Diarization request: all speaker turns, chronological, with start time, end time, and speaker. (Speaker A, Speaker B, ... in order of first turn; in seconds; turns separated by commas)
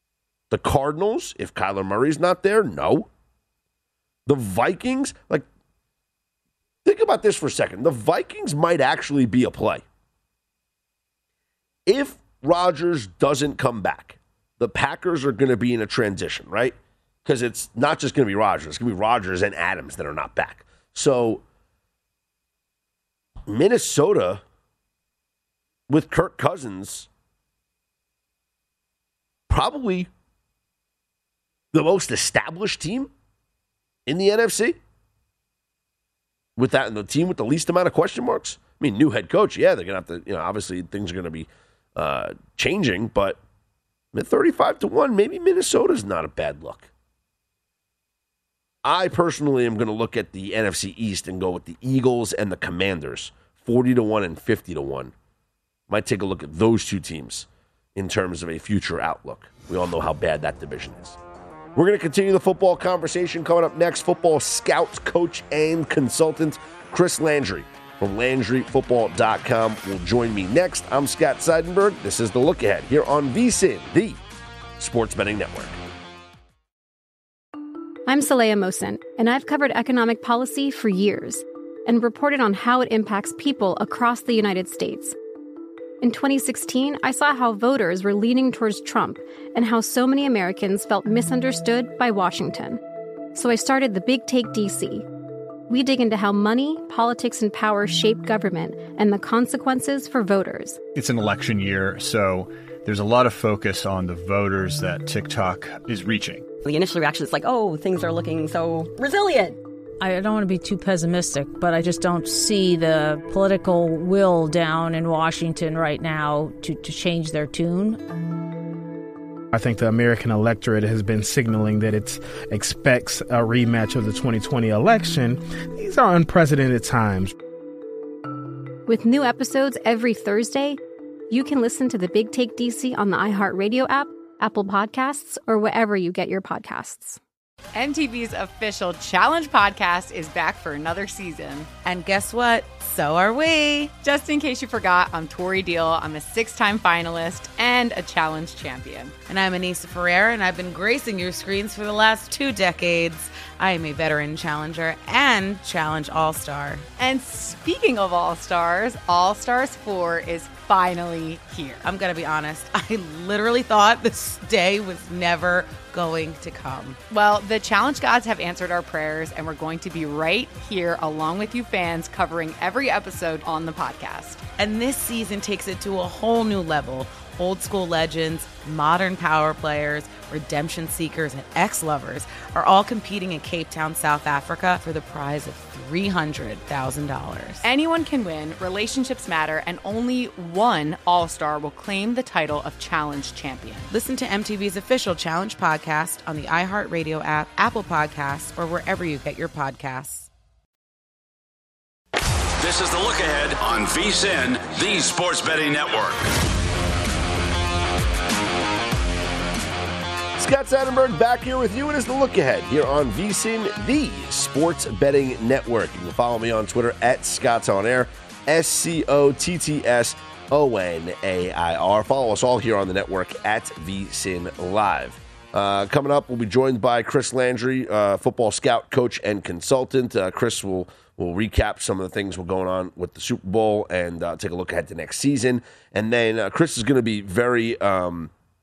Speaker A: 0.5-3.1, Speaker A: 4.3-5.5, Speaker A: 6.8-9.8, Speaker A: 11.9-21.4, Speaker A: 23.5-24.4, Speaker A: 25.9-27.1, Speaker A: 29.5-30.1, Speaker A: 31.7-33.1, Speaker A: 34.1-34.8, Speaker A: 36.6-43.4, Speaker A: 44.1-46.9, Speaker A: 48.8-55.1, Speaker A: 55.9-61.2, Speaker A: 61.8-74.2, Speaker A: 74.8-75.8, Speaker B: 78.1-85.2, Speaker B: 86.0-92.8, Speaker B: 93.3-95.1, Speaker B: 95.7-100.8, Speaker C: 101.0-106.5, Speaker D: 106.6-109.6, Speaker E: 110.0-118.0, Speaker F: 119.5-127.3, Speaker B: 128.9-130.8, Speaker B: 131.3-137.2, Speaker G: 137.7-141.7, Speaker H: 141.8-143.9, Speaker G: 144.0-149.2, Speaker H: 149.3-156.9, Speaker G: 157.0-161.8, Speaker H: 161.8-167.0, Speaker G: 167.1-174.4, Speaker H: 174.6-187.6, Speaker G: 187.6-193.9, Speaker H: 193.9-200.3, Speaker I: 202.6-206.2, Speaker A: 210.4-238.3